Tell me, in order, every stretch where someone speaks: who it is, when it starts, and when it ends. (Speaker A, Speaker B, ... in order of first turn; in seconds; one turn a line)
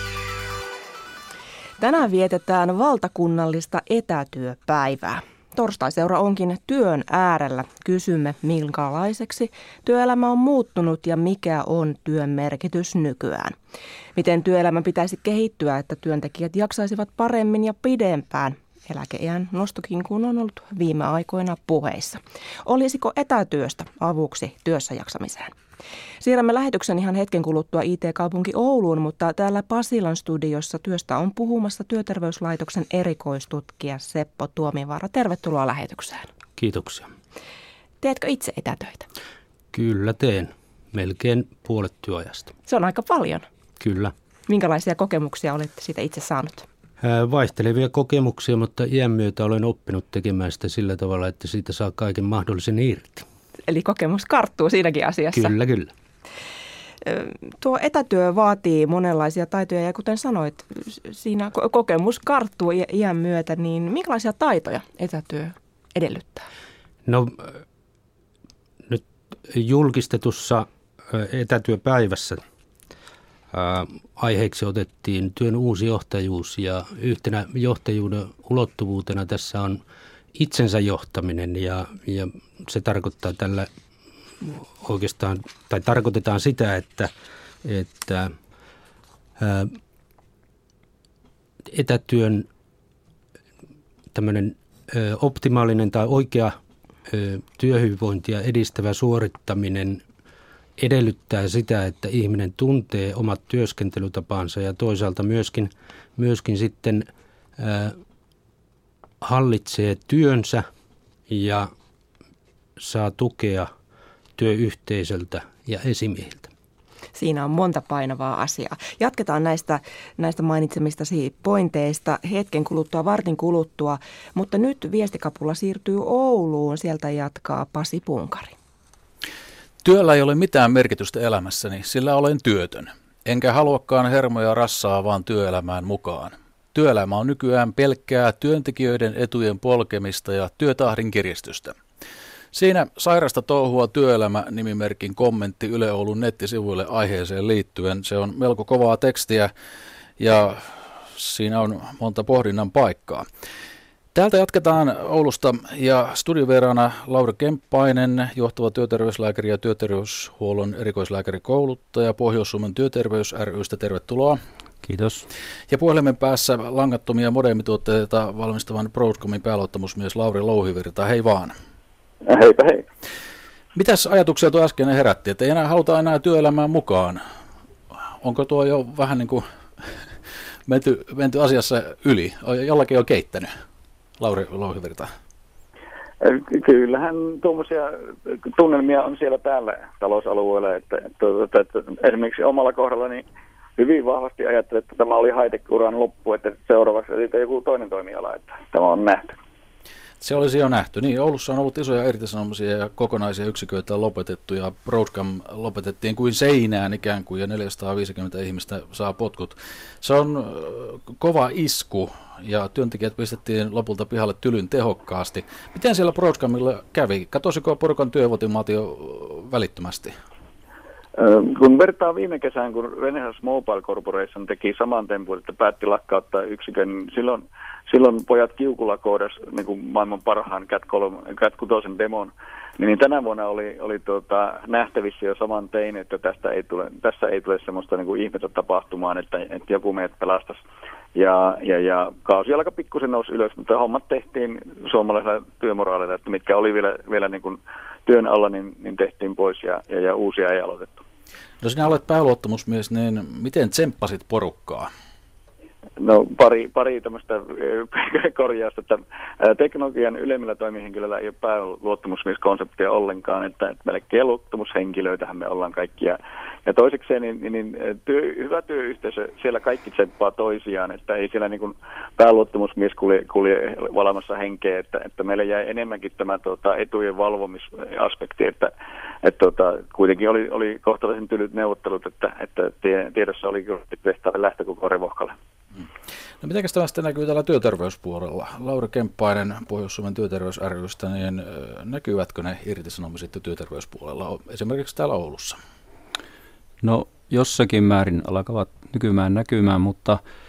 Speaker A: 1.8-13.5
Speaker A: 14.1-25.5
Speaker A: 26.2-36.3
Speaker B: 36.6-37.1
Speaker A: 38.0-39.0
Speaker B: 39.7-42.5
Speaker A: 42.6-43.5
Speaker B: 43.8-44.1
Speaker A: 44.5-46.6
Speaker B: 47.0-53.2
Speaker A: 53.7-55.5
Speaker B: 55.3-55.9
Speaker A: 57.0-66.5
Speaker B: 67.0-67.6
Speaker B: 68.8-72.4
Speaker B: 73.5-79.8
Speaker B: 80.3-83.7
Speaker B: 84.4-87.1
Speaker B: 87.6-88.3
Speaker B: 89.4-89.8
Speaker B: 91.7-92.5
Speaker B: 94.1-100.0
Speaker B: 100.8-107.1
Speaker B: 107.6-108.0
Speaker B: 109.2-110.7
Speaker B: 111.3-111.7
Speaker B: 112.8-113.7
Speaker B: 114.4-116.5
Speaker A: 117.2-128.5
Speaker C: 129.8-141.8
Speaker C: 142.5-149.5
Speaker C: 150.2-153.2
Speaker C: 154.1-164.4
Speaker D: 164.8-165.2
Speaker C: 165.7-171.5
Speaker E: 172.2-172.8
Speaker C: 173.7-177.2
Speaker C: 178.2-180.0
Speaker C: 180.7-183.5
Speaker C: 184.2-185.1
Speaker E: 186.2-193.2
Speaker E: 193.8-199.3
Speaker C: 200.2-220.1
Speaker E: 221.2-240.6
Speaker E: 241.1-251.0
Speaker C: 251.6-254.9
Speaker E: 256.0-278.7
Speaker E: 279.2-285.4
Speaker C: 286.4-295.6
Speaker D: 296.8-300.2